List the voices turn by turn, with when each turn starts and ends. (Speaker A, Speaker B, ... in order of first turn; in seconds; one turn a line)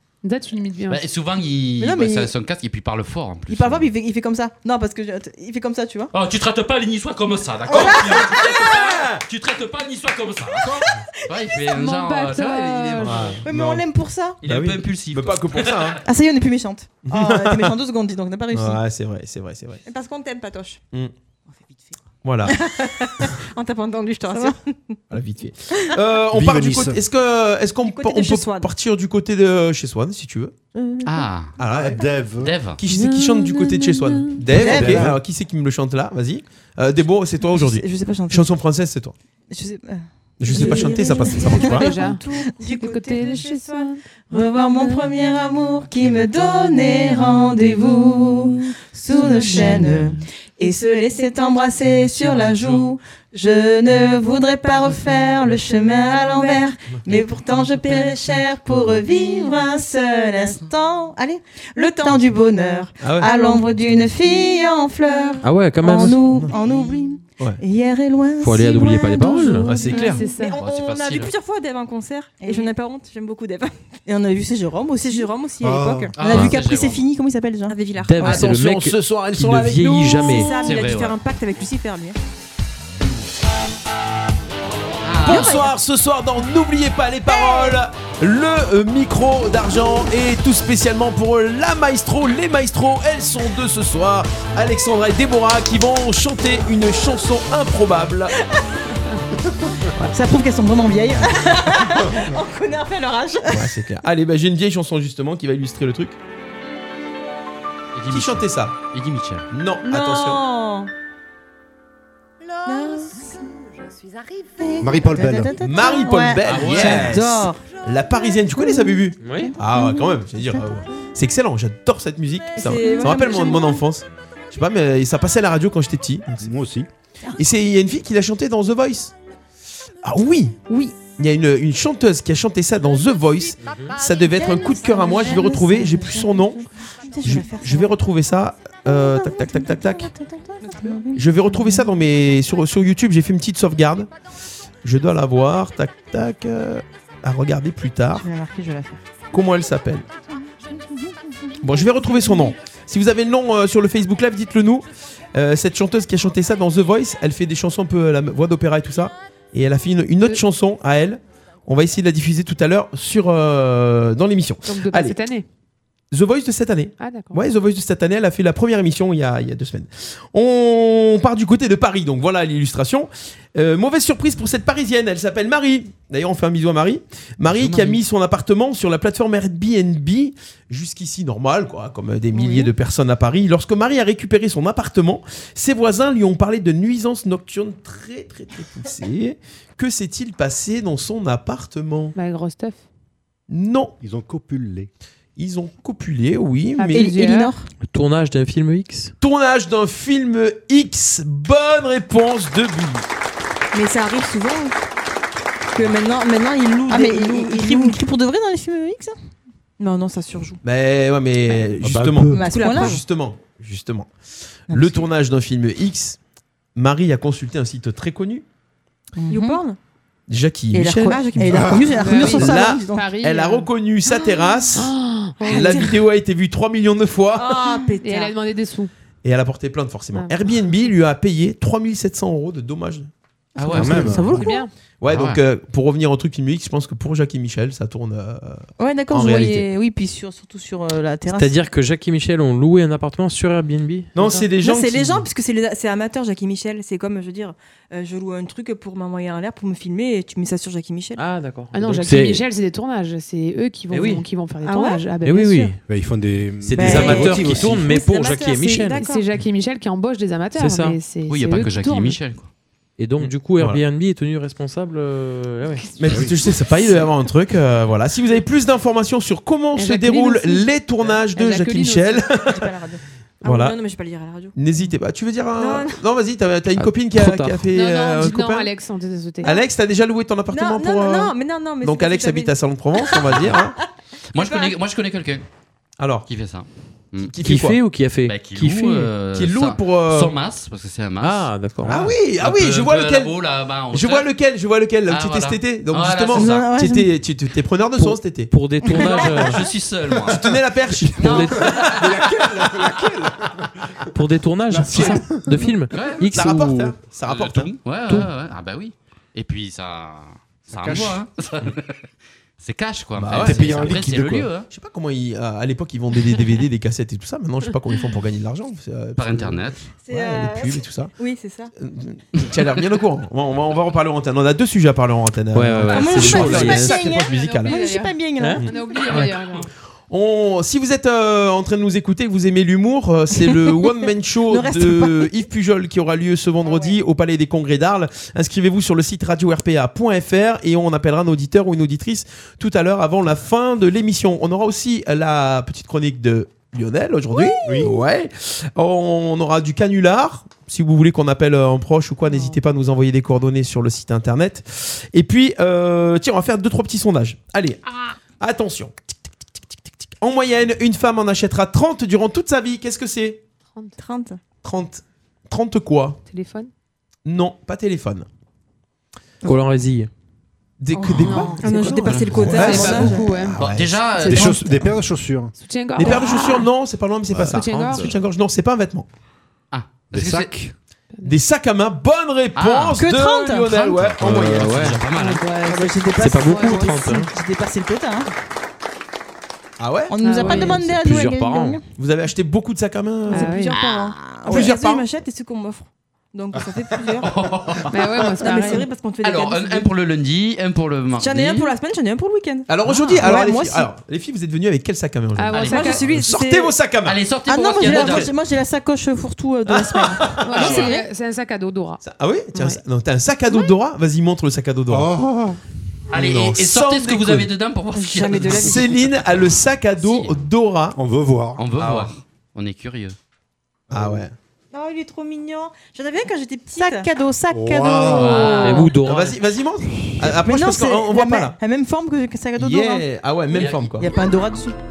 Speaker A: 0.2-1.0
Speaker B: 0.9-3.9
Speaker C: 1.8-2.3
Speaker C: 3.5-6.1
Speaker B: 6.1-13.4
Speaker D: 7.8-8.1
Speaker D: 8.7-9.2
Speaker A: 11.7-13.3
Speaker D: 13.0-13.8
Speaker C: 13.4-14.4
Speaker B: 14.4-16.0
Speaker D: 14.4-16.0
Speaker C: 16.1-18.8
Speaker D: 17.1-17.8
Speaker D: 18.5-19.8
Speaker E: 19.8-20.8
Speaker D: 22.2-22.6
Speaker E: 23.5-24.9
Speaker D: 25.1-30.5
Speaker F: 26.3-27.0
Speaker E: 27.8-28.7
Speaker C: 30.7-31.2
Speaker B: 31.0-31.6
Speaker D: 31.6-32.0
Speaker F: 31.7-32.5
Speaker B: 32.4-32.8
Speaker D: 32.8-39.1
Speaker A: 33.0-34.4
Speaker C: 34.5-35.1
Speaker F: 34.5-35.2
Speaker C: 37.5-38.5
Speaker C: 39.5-42.4
Speaker D: 40.4-41.9
Speaker E: 40.5-43.9
Speaker A: 41.7-44.0
Speaker C: 44.3-69.9
Speaker A: 49.2-50.0
Speaker B: 52.1-52.9
Speaker E: 61.8-62.2
Speaker D: 63.0-63.3
Speaker E: 63.2-63.7
Speaker E: 64.3-65.4
Speaker G: 65.4-66.2
Speaker E: 66.5-66.9
Speaker G: 68.4-69.7
Speaker D: 69.6-70.2
Speaker E: 69.7-73.7
Speaker A: 69.9-70.6
Speaker B: 70.4-71.3
Speaker C: 72.4-72.7
Speaker C: 74.1-75.3
Speaker E: 75.0-76.1
Speaker F: 75.6-76.1
Speaker B: 76.1-77.1
Speaker C: 76.2-77.8
Speaker E: 77.7-78.5
Speaker G: 78.0-80.5
Speaker D: 78.2-80.4
Speaker E: 80.2-82.2
Speaker B: 80.5-81.2
Speaker B: 85.0-85.6
Speaker D: 85.2-98.3
Speaker E: 85.3-85.7
Speaker E: 87.3-87.8
Speaker C: 100.1-101.9
Speaker E: 101.3-103.6
Speaker D: 103.5-106.2
Speaker B: 107.9-109.5
Speaker D: 108.1-108.8
Speaker D: 109.5-110.4
Speaker E: 109.8-110.9
Speaker E: 112.7-113.3
Speaker C: 112.7-113.2
Speaker C: 114.6-117.6
Speaker F: 114.8-115.5
Speaker D: 115.6-126.5
Speaker B: 116.4-117.2
Speaker C: 118.5-120.8
Speaker G: 119.2-119.5
Speaker E: 122.5-123.8
Speaker C: 122.7-123.6
Speaker F: 126.4-126.9
Speaker D: 127.4-129.1
Speaker D: 130.0-130.6
Speaker D: 131.2-136.6
Speaker G: 133.6-133.9
Speaker C: 134.3-136.6
Speaker E: 134.6-135.8
Speaker C: 137.1-137.6
Speaker E: 137.1-137.9
Speaker D: 137.2-140.1
Speaker C: 138.9-141.9
Speaker E: 140.6-141.0
Speaker D: 141.1-144.1
Speaker D: 144.8-148.3
Speaker C: 148.2-149.0
Speaker D: 149.3-150.1
Speaker C: 150.9-151.1
Speaker D: 151.6-165.2
Speaker A: 164.7-165.4
Speaker D: 166.1-192.2
Speaker A: 167.0-167.4
Speaker B: 177.5-178.0
Speaker A: 192.1-192.8
Speaker D: 193.5-193.9
Speaker F: 194.0-194.9
Speaker D: 195.4-197.1
Speaker A: 196.8-197.5
Speaker C: 196.9-197.7
Speaker G: 197.8-199.1
Speaker D: 199.2-203.1
Speaker E: 203.7-204.7
Speaker E: 205.7-208.0
Speaker C: 206.9-209.1
Speaker E: 209.8-210.6
Speaker D: 210.6-214.1
Speaker F: 211.8-212.4
Speaker C: 212.3-213.0
Speaker E: 212.3-213.0
Speaker D: 214.7-216.2
Speaker C: 214.7-215.1
Speaker D: 216.7-218.4
Speaker C: 219.2-219.6
Speaker E: 219.3-219.8
Speaker D: 220.3-221.6
Speaker C: 220.7-223.1
Speaker E: 221.0-222.1
Speaker F: 221.4-222.3
Speaker A: 222.0-223.7
Speaker D: 222.2-224.9
Speaker A: 224.7-225.7
Speaker D: 225.4-227.6
Speaker E: 225.4-225.9
Speaker E: 227.3-228.3
Speaker A: 228.0-228.9
Speaker D: 229.2-233.1
Speaker A: 230.1-230.6
Speaker B: 233.6-234.3
Speaker F: 233.7-234.5
Speaker C: 233.9-234.6
Speaker A: 234.3-234.7
Speaker D: 235.0-239.7
Speaker B: 235.1-235.4
Speaker C: 238.8-241.5
Speaker G: 241.3-244.2
Speaker D: 244.1-245.3
Speaker E: 244.6-251.2
Speaker G: 251.2-252.4
Speaker A: 251.7-255.7
Speaker G: 253.9-254.2
Speaker E: 254.6-255.0
Speaker G: 255.2-255.8
Speaker F: 255.9-257.9
Speaker G: 256.6-259.0
Speaker E: 256.8-259.3
Speaker C: 256.8-257.5
Speaker A: 258.7-262.2
Speaker G: 260.6-261.0
Speaker B: 261.3-262.5
Speaker G: 263.0-265.8
Speaker D: 266.0-272.7
Speaker F: 266.1-266.3
Speaker A: 269.7-270.7
Speaker A: 271.2-272.2
Speaker E: 272.5-274.6
Speaker D: 273.4-273.8
Speaker D: 274.6-278.7
Speaker E: 275.6-276.0
Speaker G: 276.8-277.6
Speaker A: 277.7-279.5
Speaker D: 279.4-283.8
Speaker E: 280.5-282.5
Speaker E: 283.1-283.6
Speaker B: 284.3-285.4
Speaker E: 284.4-284.7
Speaker D: 286.0-286.3
Speaker B: 286.3-287.3
Speaker D: 287.3-287.8
Speaker G: 287.4-289.1
Speaker B: 288.2-294.3
Speaker D: 289.3-290.3
Speaker G: 291.2-292.0
Speaker F: 291.8-292.1
Speaker D: 291.9-298.5
Speaker B: 295.1-296.7
Speaker C: 296.3-297.1
Speaker G: 298.0-299.6
Speaker B: 298.9-300.5
Speaker D: 300.3-301.7
Speaker F: 300.3-303.7
Speaker B: 301.2-302.2
Speaker G: 301.2-301.7
Speaker G: 304.1-306.9
Speaker F: 304.7-305.6
Speaker B: 305.9-306.3
Speaker D: 306.3-307.7
Speaker B: 307.3-312.0
Speaker F: 310.7-311.2
Speaker B: 312.6-314.7
Speaker D: 313.2-321.1
Speaker F: 313.4-314.5
Speaker B: 319.1-319.9
Speaker E: 320.0-321.7
Speaker D: 321.8-327.8
Speaker G: 325.5-326.9
Speaker C: 325.9-328.6
Speaker E: 326.2-327.2
Speaker A: 327.1-329.6
Speaker B: 328.9-329.6
Speaker D: 330.1-357.8
Speaker C: 334.5-335.3
Speaker E: 336.6-337.0
Speaker F: 347.6-348.0
Speaker A: 352.3-352.6
Speaker D: 358.4-358.9
Speaker D: 360.2-363.4
Speaker E: 364.0-364.4
Speaker D: 364.6-366.2
Speaker A: 366.3-366.7
Speaker D: 367.2-368.3
Speaker G: 369.4-370.1
Speaker D: 370.8-374.0
Speaker E: 371.0-373.4
Speaker A: 371.2-371.9
Speaker A: 372.5-373.6
Speaker B: 373.6-374.8
Speaker A: 374.2-374.6
Speaker F: 374.3-375.5
Speaker A: 375.6-376.7
Speaker D: 375.9-379.1
Speaker G: 377.5-378.2
Speaker A: 377.5-378.1
Speaker B: 379.7-380.6
Speaker F: 380.1-380.7
Speaker D: 381.2-384.9
Speaker B: 382.6-383.1
Speaker C: 383.0-383.9
Speaker B: 383.9-385.5
Speaker G: 384.2-385.0
Speaker A: 385.1-387.0
Speaker C: 385.6-388.3
Speaker G: 386.2-387.3
Speaker D: 389.8-390.1
Speaker C: 390.1-391.9
Speaker A: 390.2-390.8
Speaker G: 390.4-391.8
Speaker D: 391.9-393.6
Speaker E: 393.3-397.3
Speaker A: 393.3-393.8
Speaker B: 393.8-394.1
Speaker C: 394.1-394.7
Speaker D: 394.5-395.0
Speaker B: 397.2-398.4
Speaker A: 397.9-398.9
Speaker E: 398.4-399.9
Speaker B: 399.2-401.7
Speaker E: 401.2-402.7
Speaker D: 402.7-407.2
Speaker A: 402.9-403.2
Speaker C: 403.2-403.6
Speaker E: 403.3-403.9
Speaker A: 405.4-406.0
Speaker B: 405.5-406.0
Speaker E: 405.7-406.7
Speaker B: 407.0-408.3
Speaker C: 407.4-410.9
Speaker D: 407.9-408.2
Speaker D: 409.7-410.9
Speaker A: 410.4-412.0
Speaker D: 412.0-415.1
Speaker A: 412.5-412.8
Speaker F: 414.9-415.6
Speaker B: 416.1-418.9
Speaker D: 416.1-417.5
Speaker E: 418.1-418.8
Speaker D: 418.4-421.0
Speaker B: 420.0-420.4
Speaker F: 420.9-421.6
Speaker B: 421.6-423.1
Speaker D: 421.8-422.1
Speaker F: 423.9-424.3
Speaker D: 423.9-424.3
Speaker E: 424.7-427.1
Speaker C: 426.8-428.9
Speaker F: 427.5-428.5
Speaker B: 428.0-428.9
Speaker G: 428.6-429.4
Speaker D: 429.0-431.6
Speaker C: 430.2-433.1
Speaker D: 432.6-434.1
Speaker B: 433.5-434.0
Speaker C: 434.0-434.7